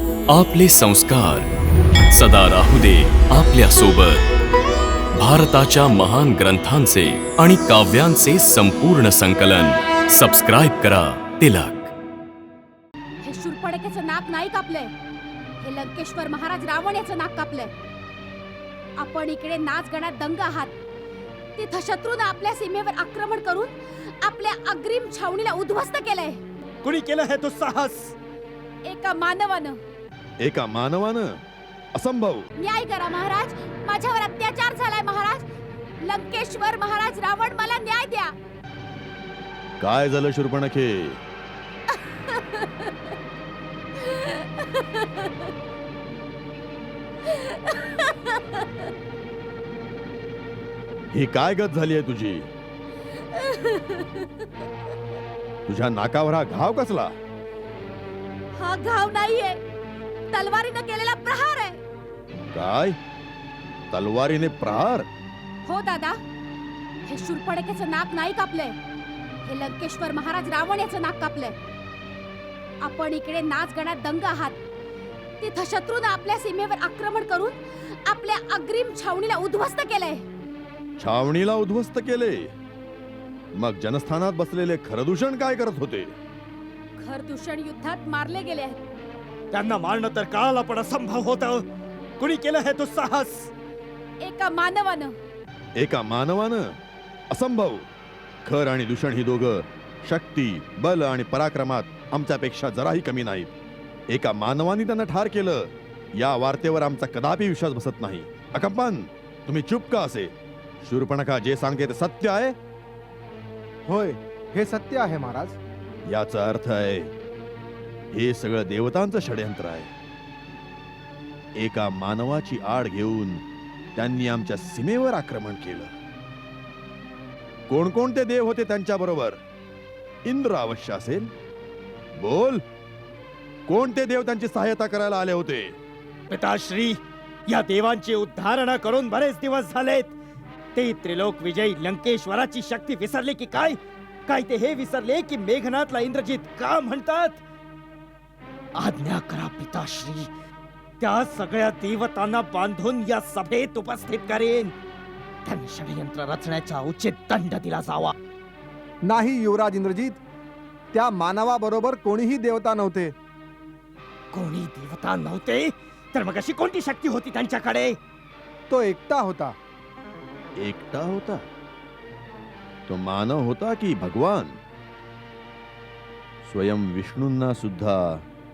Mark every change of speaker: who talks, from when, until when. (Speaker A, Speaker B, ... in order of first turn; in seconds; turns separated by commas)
Speaker A: 0.3-1.5, Speaker A: 2.1-4.2, Speaker A: 5.1-11.9, Speaker B: 13.2-14.9, Speaker B: 15.6-17.7, Speaker B: 19.0-20.7, Speaker B: 21.6-26.4, Speaker C: 26.8-28.1, Speaker B: 28.9-29.8, Speaker D: 30.4-31.4, Speaker D: 31.9-32.5, Speaker B: 32.6-35.5, Speaker B: 36.0-38.3, Speaker D: 39.8-41.2, Speaker B: 42.2-42.9, Speaker B: 44.0-45.3, Speaker B: 47.2-48.7, Speaker D: 51.1-52.5, Speaker B: 53.2-54.3, Speaker D: 55.7-57.1, Speaker B: 58.5-59.6, Speaker B: 60.3-61.8, Speaker D: 62.5-63.0, Speaker D: 63.9-65.1, Speaker B: 65.7-66.2, Speaker B: 67.0-68.8, Speaker B: 69.4-71.5, Speaker B: 72.8-74.6, Speaker B: 75.4-80.2, Speaker D: 81.0-82.5, Speaker D: 83.5-86.1, Speaker B: 87.0-88.8, Speaker C: 89.5-91.6, Speaker C: 92.2-93.5, Speaker B: 94.2-95.1, Speaker D: 95.8-96.7, Speaker D: 97.3-97.9, Speaker D: 98.4-103.5, Speaker D: 104.1-112.5, Speaker E: 113.9-115.6, Speaker D: 116.1-117.1, Speaker D: 118.1-119.9, Speaker D: 121.6-123.4, Speaker D: 124.0-125.9, Speaker D: 127.7-129.4, Speaker D: 130.2-131.3, Speaker D: 132.2-132.6, Speaker D: 133.7-135.8, Speaker C: 136.3-140.1, Speaker C: 140.8-147.4, Speaker C: 148.8-150.3, Speaker C: 151.0-154.7, Speaker C: 155.4-158.1, Speaker E: 159.0-160.2, Speaker E: 160.9-163.1, Speaker C: 164.3-168.0, Speaker E: 168.7-169.6, Speaker D: 170.6-171.5, Speaker D: 172.9-174.6, Speaker D: 176.4-178.2